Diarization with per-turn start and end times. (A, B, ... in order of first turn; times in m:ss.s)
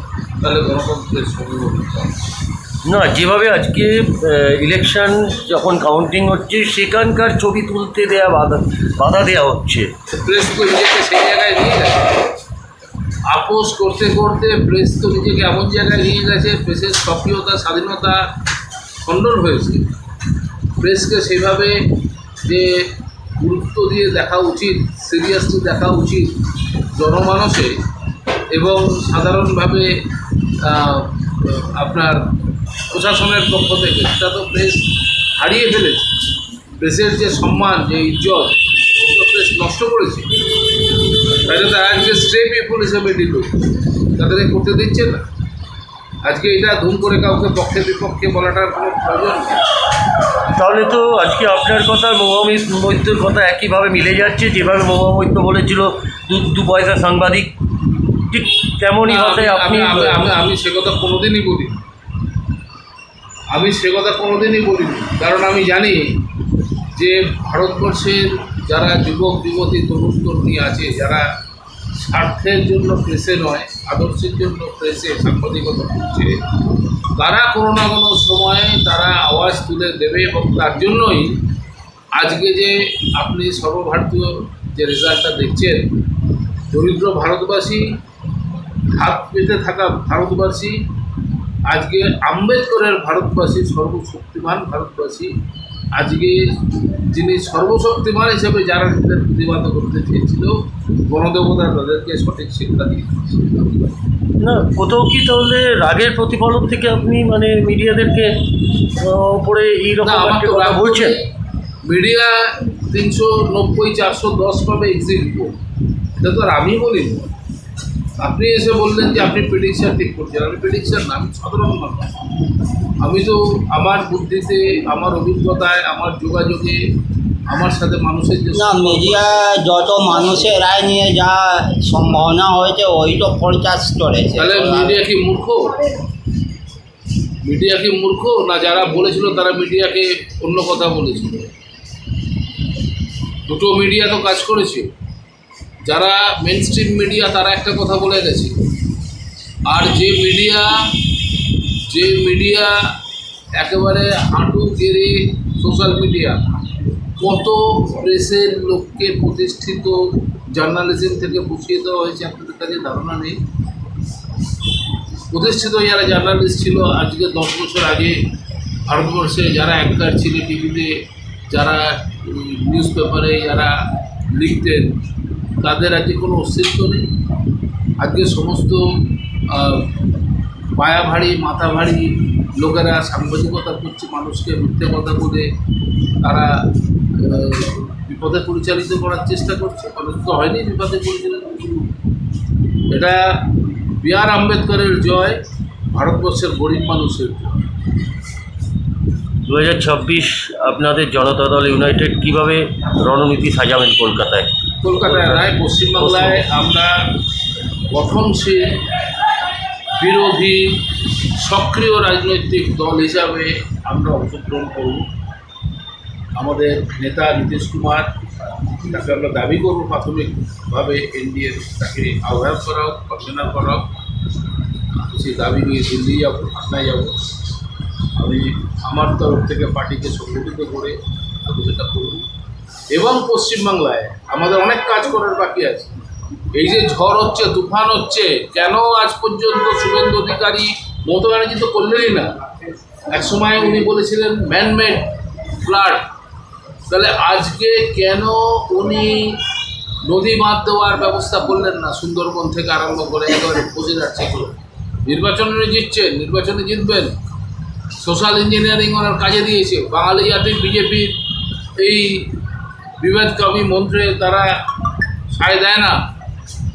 0:00.4-0:02.1 A
0:02.8-0:09.9 B
0:10.1-0:12.2 A
0:13.3-0:18.3 A
0:19.0-0:19.9 A
0:20.8-0:21.9 A
0:22.4-0:26.4 A
0:27.0-0:27.8 A
0:28.5-0:30.0 A
0:30.6-0:32.3 A
0:32.9-0:36.1 A
0:36.8-0:40.3 A
0:41.4-0:43.6 A
0:44.2-0:45.2 A
0:46.2-0:49.6 A
0:50.6-0:57.5 B
0:58.3-1:00.3 B
0:59.0-1:01.8 A
1:03.5-1:06.2 A
1:07.0-1:11.3 A
1:12.0-1:16.4 A
1:17.2-1:21.4 A
1:22.2-1:25.9 A
1:26.7-1:27.9 A
1:28.9-1:30.8 A
1:31.7-1:35.3 A
1:36.0-1:40.6 A
1:41.1-1:43.6 A
1:44.4-1:48.4 B
1:49.0-1:51.2 B
1:50.0-1:51.2 A
1:51.8-1:55.6 A
1:56.2-1:57.3 A
1:58.2-2:02.1 A
2:03.0-2:06.8 A
2:07.5-2:09.3 A
2:08.5-2:15.0 C
2:14.4-2:15.8 A
2:17.4-2:21.5 A
2:23.5-2:24.9 A
2:25.8-2:28.6 A
2:29.7-2:30.9 A
2:31.9-2:32.8 A
2:33.6-2:36.4 A
2:37.2-2:43.4 A
2:45.3-2:48.2 A
2:48.9-2:53.8 A
2:54.3-2:55.0 A
2:55.6-2:57.1 A
2:58.0-2:59.9 A
3:00.8-3:05.5 A
3:06.2-3:06.6 A
3:07.2-3:11.9 A
3:12.9-3:13.4 A
3:14.0-3:15.4 A
3:15.9-3:17.6 A
3:19.5-3:26.5 B
3:24.8-3:27.1 A
3:27.9-3:28.8 A
3:30.0-3:30.8 A
3:31.4-3:35.1 A
3:36.4-3:38.1 A
3:38.8-3:43.9 A
3:45.0-3:47.2 A
3:48.2-3:52.3 A
3:52.9-3:56.0 A
3:56.5-4:02.4 A
4:03.1-4:05.1 A
4:05.6-4:06.1 A
4:06.9-4:09.4 A
4:10.0-4:17.1 A
4:18.0-4:21.2 A
4:21.8-4:22.3 A
4:23.0-4:24.6 A
4:25.3-4:26.0 A